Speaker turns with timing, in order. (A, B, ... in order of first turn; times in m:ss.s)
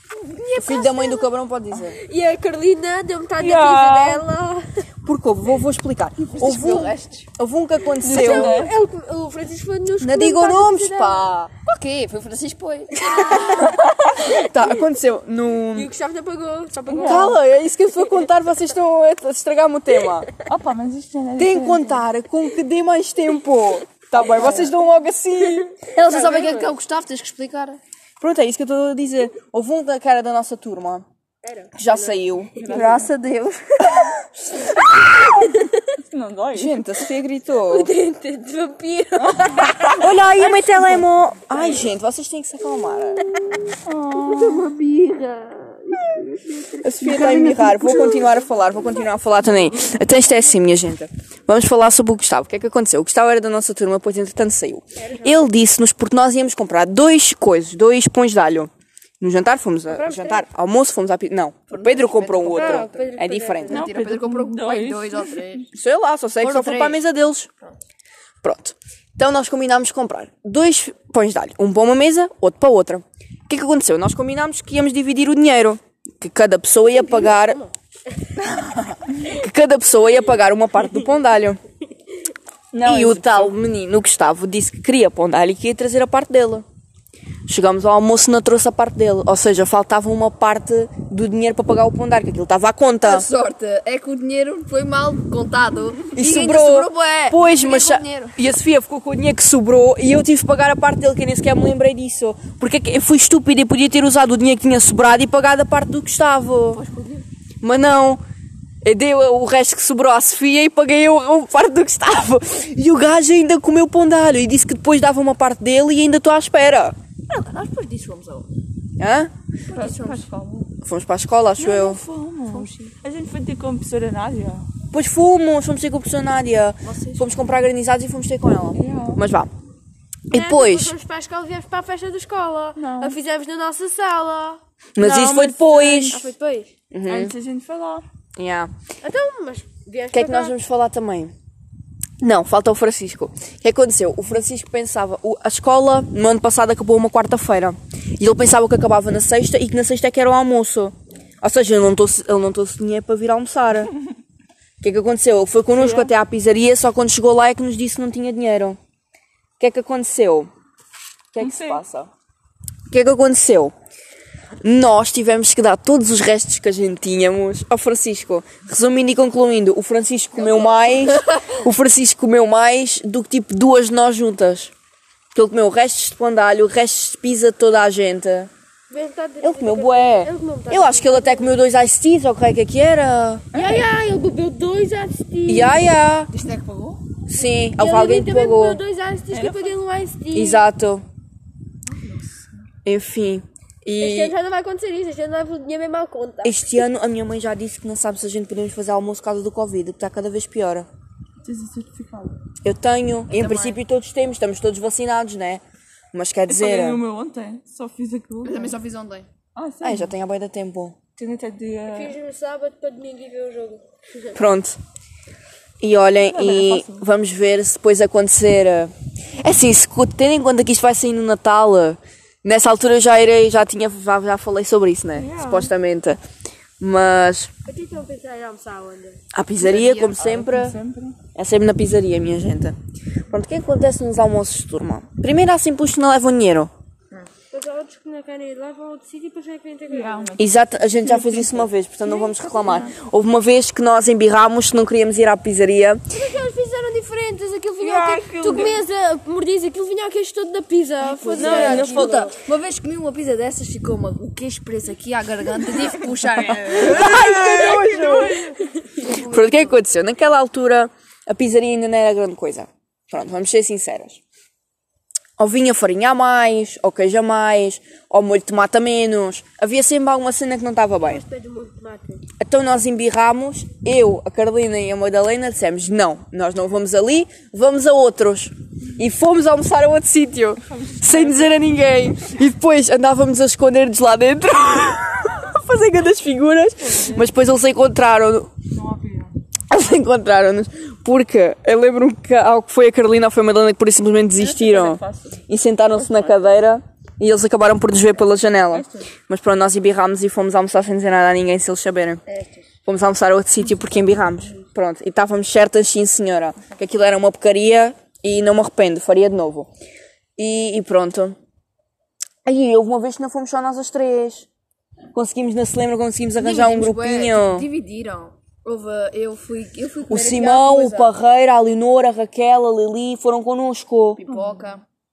0:00.3-0:01.3 A
0:00.5-0:02.0 B
0:01.9-0:04.8 A
0:03.4-0:04.2 C
0:05.0-0:08.6 B
0:06.3-0:07.3 D
0:08.0-0:08.7 C
0:08.0-0:11.3 A
0:10.0-0:11.5 B
0:11.6-0:13.6 D
0:13.1-0:13.8 A
0:13.1-0:15.9 B
0:15.7-0:17.4 A
0:16.8-0:17.3 C
0:16.9-0:20.3 B
0:20.4-0:22.0 C
0:21.4-0:25.7 B
0:25.9-0:27.8 D
0:26.1-0:26.7 A
0:28.2-0:31.0 B
0:31.4-0:33.0 A
0:31.7-0:32.9 B
0:32.6-0:33.1 C
0:32.7-0:34.0 D
0:36.1-0:36.8 C
0:36.5-0:37.9 B
0:37.7-0:40.1 A
0:39.2-0:40.0 C
0:39.9-0:43.3 B
0:43.8-0:44.7 C
0:44.2-0:46.0 D
0:44.4-0:44.7 A
0:45.5-0:46.2 A
0:46.8-1:03.8 B
0:47.1-0:47.5 C
0:47.5-0:48.3 A
0:55.0-0:55.5 A
0:59.9-1:00.4 A
1:01.7-1:03.1 D
1:02.5-1:03.8 A
1:03.7-1:05.7 D
1:03.7-1:05.4 C
1:05.7-1:07.5 B
1:06.4-1:07.0 D
1:08.4-1:17.6 B
1:18.4-1:21.6 B
1:22.7-1:23.5 C
1:22.8-1:26.6 B
1:27.5-1:33.3 B
1:33.0-1:38.4 D
1:36.1-1:46.8 B
1:46.7-1:47.2 D
1:47.6-1:48.2 B
1:48.8-1:57.0 B
1:57.3-1:58.5 D
1:59.0-1:59.3 B
1:59.7-2:00.6 C
1:59.7-2:00.6 D
2:00.8-2:02.0 B
2:01.6-2:04.6 C
2:02.5-2:02.9 D
2:04.9-2:09.5 B
2:06.8-2:07.3 D
2:08.7-2:09.2 C
2:10.3-2:10.9 B
2:10.3-2:14.6 A
2:12.8-2:13.2 C
2:15.0-2:16.3 B
2:15.0-2:16.2 C
2:15.9-2:16.7 A
2:16.9-2:17.3 B
2:17.1-2:18.0 C
2:18.4-2:18.7 B
2:19.0-2:20.5 A
2:20.1-2:21.3 B
2:22.2-2:33.9 B
2:34.8-2:38.8 B
2:35.7-2:36.1 C
2:39.6-2:40.5 B
2:41.3-2:42.1 B
2:41.4-2:41.8 C
2:42.9-2:43.7 B
2:44.6-2:54.7 B
2:55.3-2:58.5 B
2:58.9-3:01.6 A
2:59.4-3:03.5 B
3:03.5-3:03.8 C
3:03.5-3:05.9 A
3:05.5-3:06.3 B
3:06.3-3:07.0 D
3:07.3-3:08.8 B
3:07.8-3:10.6 A
3:09.3-3:09.8 C
3:10.3-3:11.0 B
3:11.9-3:12.6 D
3:12.8-3:14.3 B
3:14.0-3:16.7 A
3:16.4-3:20.9 B
3:21.4-3:22.3 C
3:22.6-3:25.6 B
3:23.3-3:23.8 D
3:26.1-3:27.0 B
3:26.5-3:28.7 C
3:28.4-3:29.3 D
3:29.5-3:30.1 C
3:29.8-3:31.0 B
3:31.2-3:32.2 C
3:31.9-3:34.4 A
3:34.3-3:34.8 B
3:35.8-3:46.2 B
3:36.2-3:37.0 C
3:45.1-3:45.7 C
3:46.8-3:47.5 B
3:47.6-3:49.2 A
3:49.3-3:50.8 B
3:49.6-3:50.2 D
3:49.9-3:51.2 C
3:51.3-3:52.8 B
3:53.3-3:56.7 B
3:57.5-4:00.4 A
3:59.9-4:02.9 C
4:00.4-4:06.0 B
4:06.1-4:12.3 A
4:07.8-4:08.8 C
4:11.0-4:17.2 D
4:11.3-4:12.3 C
4:11.5-4:11.8 B
4:16.7-4:18.4 B
4:16.7-4:18.6 C
4:19.0-4:19.8 D
4:19.0-4:24.2 B
4:25.4-4:31.2 B
4:31.0-4:32.2 A
4:32.4-4:48.5 B
4:40.7-4:41.6 C
4:46.8-4:47.2 C
4:48.7-4:49.3 C
4:49.7-5:02.2 B
4:54.4-4:56.6 C
4:58.7-4:59.1 C
5:02.3-5:02.6 D
5:02.8-5:09.7 B
5:10.4-5:11.4 B
5:12.4-5:14.5 B
5:15.1-5:17.6 B
5:16.4-5:21.1 D
5:20.1-5:24.2 B
5:24.2-5:24.8 D
5:24.3-5:24.7 C